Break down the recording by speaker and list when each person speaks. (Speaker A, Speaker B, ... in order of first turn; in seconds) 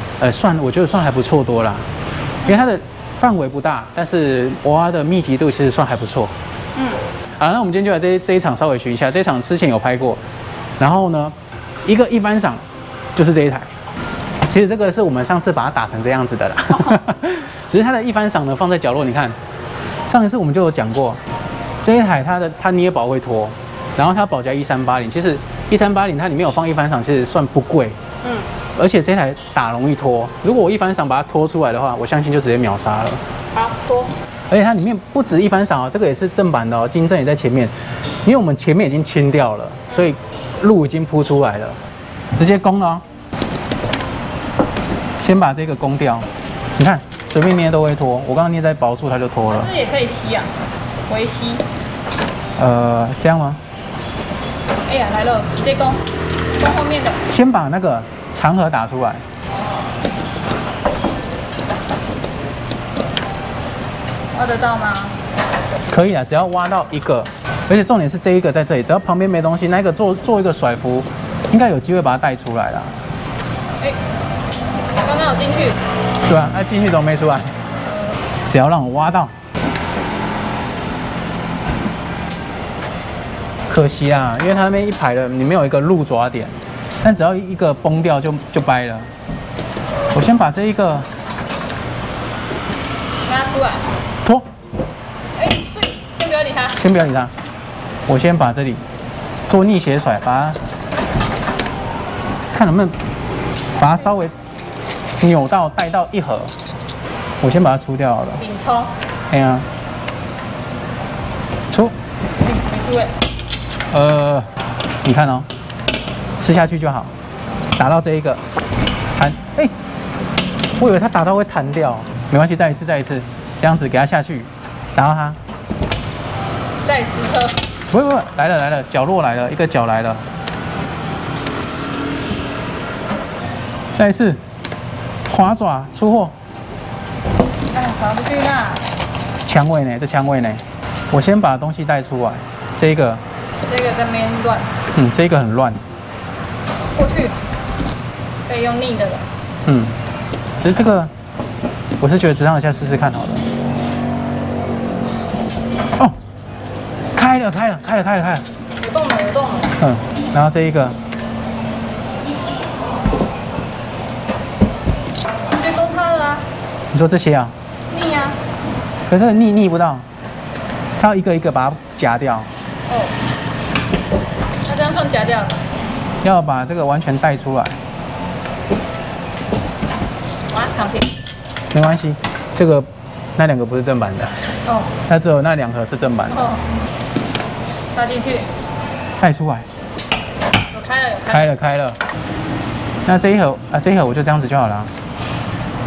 Speaker A: 0.2-1.9, 2.4-6.3, 7.4-10.2, 10.8-12.6, 13.1-13.7, 14.4-19.4, 20.1-21.2, 21.8-28.0, 28.8-33.2, 34.5-37.7, 38.2-41.8, 42.3-43.0, 45.2-49.7, 52.6-53.6, 57.3-59.2, 65.9-72.9, 76.2-77.5, 78.5-79.3, 83.7-89.1, 90.1-91.1, 96.8-97.3, 98.1-98.8, 99.4-100.6, 102.5-102.9, 103.8-104.3, 105.2-106.5, 107.4-108.4, 109.3-109.7, 113.9-114.5, 115.0-115.5, 116.4-117.1, 117.8-118.4, 119.1-119.7, 120.8-125.4, 127.9-130.2, 133.9-134.4, 135.3-136.3, 139.4-143.2, 144.9-145.8, 149.7-150.0, 150.6-151.1, 152.0-153.5, 157.1-158.4, 159.8-161.0, 166.9-167.5, 169.1-170.0, 171.0-172.5, 176.2-177.8, 181.7-184.5, 185.1-186.4, 189.2-189.7, 191.3-192.0, 193.1-194.9
Speaker B: 6.8-7.0, 28.2-28.5, 33.5-34.1, 49.5-50.5, 51.1-51.6, 54.9-56.0, 56.6-57.2, 64.3-65.2, 75.0-75.8, 93.2-93.9, 95.3-96.8, 108.4-108.9, 112.4-113.1, 126.8-127.6, 137.7-138.8, 143.7-144.7, 146.9-147.3, 148.5-149.3, 158.8-159.7, 165.5-166.4, 167.9-168.4, 172.9-173.1, 174.7-175.6, 180.5-181.1, 184.6-184.9, 186.3-186.6, 187.9-188.5, 190.7-191.5